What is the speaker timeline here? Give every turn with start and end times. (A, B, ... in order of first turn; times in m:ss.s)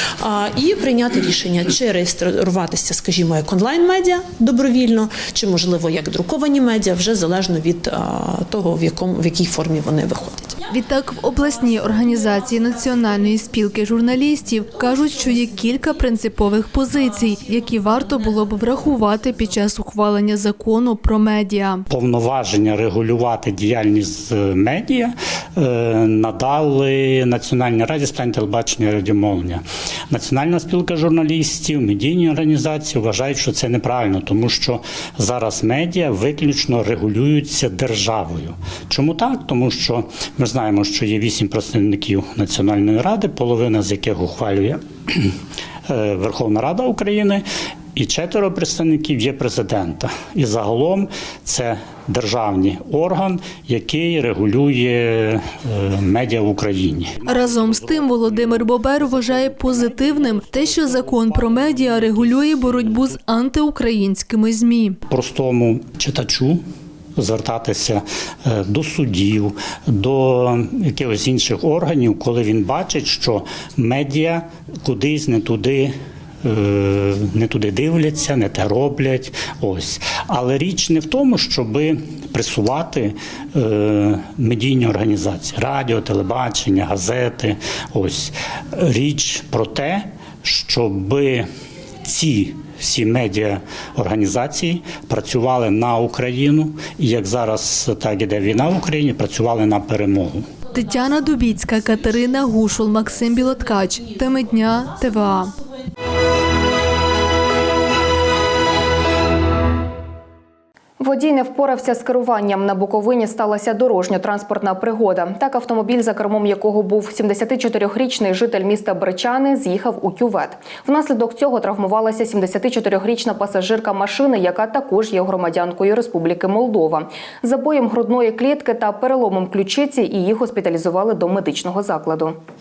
0:00.2-0:10.6 A
0:10.6-0:21.8 B
0:21.9-0:45.3 C
0:45.9-0:47.4 C
0:47.9-0:58.6 C
0:57.2-1:05.0 B
1:05.1-1:06.6 C
1:07.2-1:15.9 C
1:16.4-1:31.4 C
1:32.0-1:40.5 C
1:40.7-1:45.6 B
1:51.0-2:12.4 D